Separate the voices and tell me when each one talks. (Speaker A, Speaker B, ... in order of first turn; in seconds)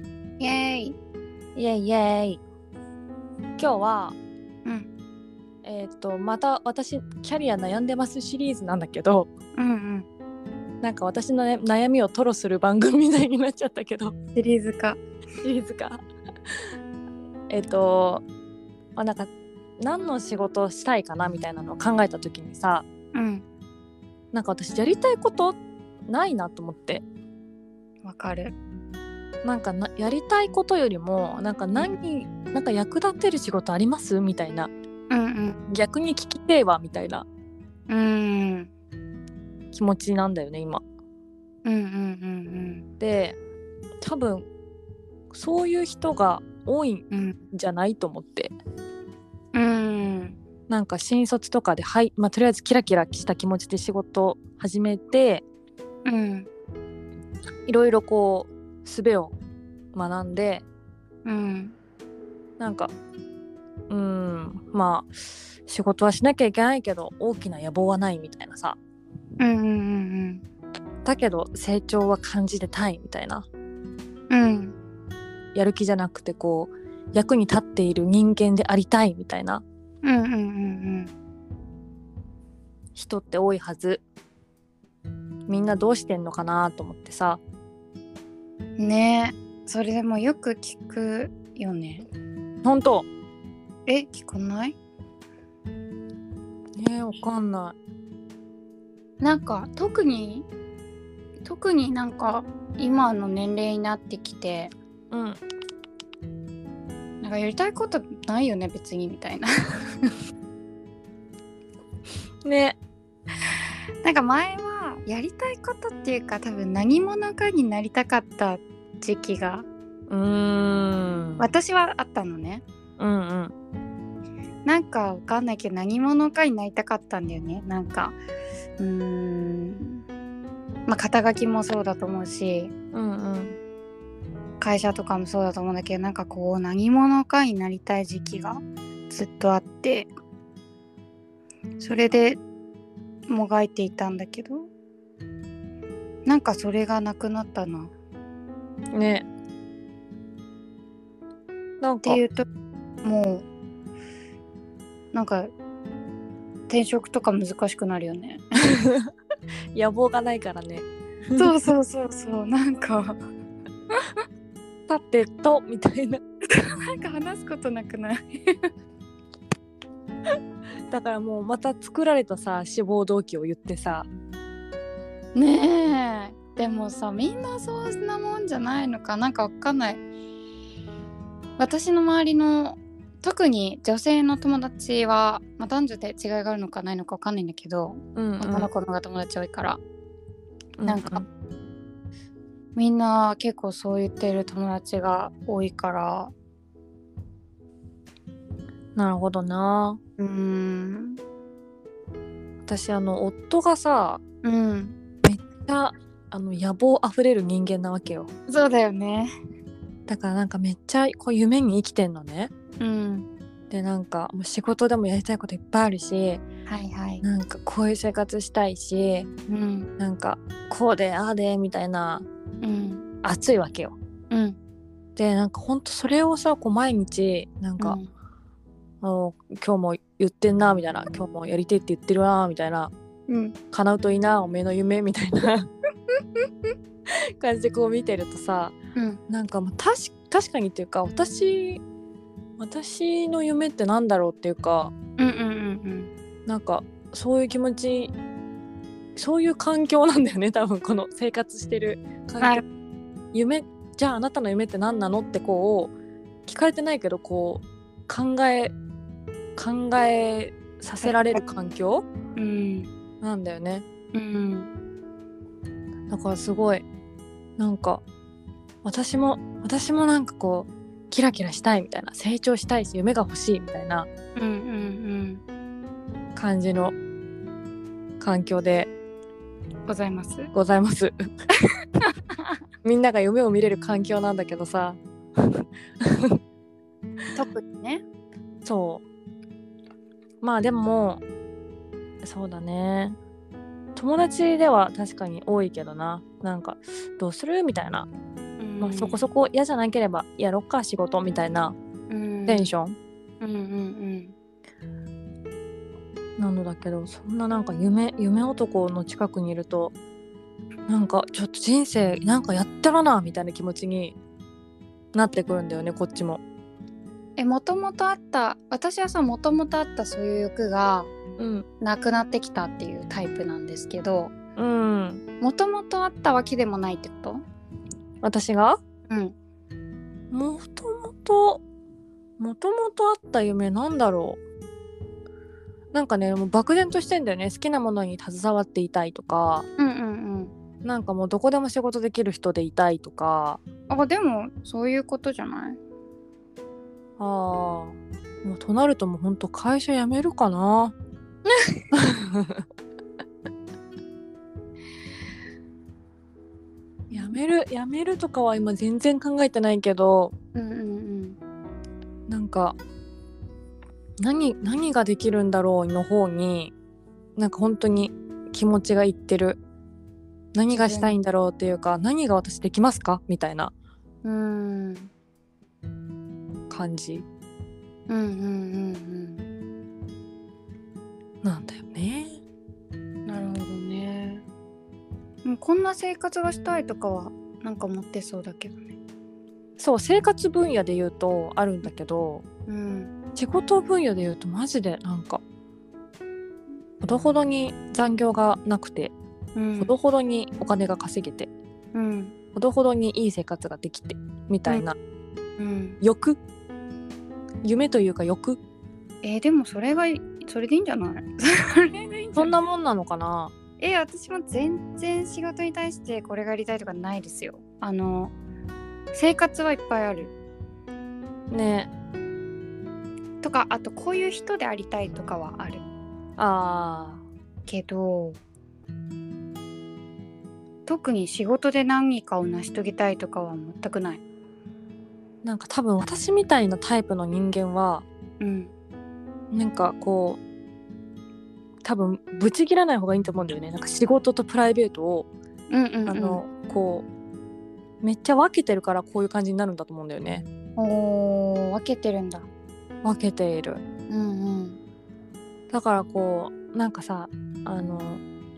Speaker A: 0.4-1.0, 9.6-10.1, 14.3-15.0, 23.1-23.4, 28.1-28.5, 35.1-35.6, 37.9-38.7, 41.6-42.9, 47.1-47.4, 49.5-50.4, 56.0-56.5, 61.2-61.8, 69.4-70.4, 74.3-74.8, 80.0-81.1, 88.8-92.0, 93.9-94.8, 99.2-100.5, 101.4-104.7, 107.2-110.1, 114.0-119.7, 121.4-122.6, 124.7-128.2, 128.8-130.0, 130.9-132.7, 134.6-140.1, 141.8-142.4, 143.3-144.7, 146.2-147.9, 152.0-152.4, 153.0-153.5, 155.1-155.5, 156.7-158.6, 161.4-163.2, 166.5-168.7, 175.3-180.0, 181.6-189.8, 190.9-191.2, 192.8-196.3, 200.2-201.2, 204.4-204.9, 208.5-209.3, 212.8-213.3, 216.7-217.2, 219.5-219.9, 222.6-223.0, 224.3-224.6, 227.8-228.1, 233.3-233.6, 245.2-246.1, 261.0-261.4, 262.4-262.9, 264.1-264.7, 274.4-275.4, 279.9-280.5, 287.4-288.0, 298.6-299.3, 302.1-302.7, 303.4-304.3, 317.4-321.1, 321.8-324.3, 325.4-327.4, 329.1-329.4, 339.8-340.5, 343.9-345.8, 351.5-351.9, 360.6-361.4, 370.7-371.2, 374.2-375.1, 378.1-379.4, 383.3-384.4, 385.4-388.9, 392.7-393.1, 399.6-399.9, 401.9-402.3, 405.6-406.0, 409.2-412.6, 413.8-418.3, 419.1-420.3, 423.4-425.9, 427.7-428.4, 430.9-434.2, 438.4-438.7, 445.7-446.4, 450.8-452.5, 454.1-454.8
Speaker B: 1.6-2.4, 3.6-4.2, 5.6-9.3, 10.8-14.1, 15.4-16.0, 17.5-18.2, 19.0-22.9, 24.3-27.0, 29.4-34.7, 35.7-37.3, 39.7-40.8, 43.0-43.4, 44.0-44.5, 45.3-48.5, 50.7-55.4, 57.7-59.4, 59.9-60.6, 62.6-62.9, 63.9-68.8, 71.0-73.5, 75.5-79.6, 83.0-84.0, 85.5-87.4, 92.6-93.1, 96.8-97.8, 105.1-105.4, 112.5-112.8, 120.1-121.5, 123.0-123.5, 132.9-133.6, 148.9-149.3, 151.8-152.2, 158.8-159.1, 159.7-161.5, 164.9-166.2, 170.9-174.1, 188.2-188.7, 190.8-191.2, 199.0-200.0, 202.7-204.2, 205.2-208.3, 210.1-212.5, 213.7-216.4, 217.2-219.3, 220.0-222.3, 223.2-223.9, 225.2-228.0, 229.0-232.9, 233.7-235.7, 237.1-238.8, 239.3-241.8, 242.6-244.9, 246.5-248.1, 249.2-252.6, 253.3-255.9, 256.5-258.7, 259.6-262.1, 263.2-263.8, 266.1-266.8, 267.6-268.0, 268.8-274.1, 276.4-276.9, 278.2-278.9, 280.5-281.1, 282.8-286.4, 288.6-289.0, 290.4-291.2, 292.2-293.2, 294.0-298.1, 298.8-301.8, 302.5-303.0, 306.4-309.9, 310.9-314.2, 315.1-316.4, 321.4-321.6, 324.6-325.2, 328.2-328.8, 330.3-331.6, 332.4-334.4, 335.9-339.7, 340.8-343.6, 347.2-350.9, 351.9-352.6, 357.1-360.3, 362.3-362.8, 364.2-366.7, 367.4-369.6, 370.5-373.7, 376.7-377.3, 381.4-382.4, 389.8-392.4, 393.4-395.4, 397.0-399.1, 399.8-401.5, 402.6-404.9, 406.0-406.4, 407.6-408.6, 412.4-413.5, 421.5-421.9, 426.4-427.2, 435.4-438.1, 439.5-440.4, 441.9-445.3, 446.1-447.1, 448.0-450.4, 453.0-453.8, 455.7-458.2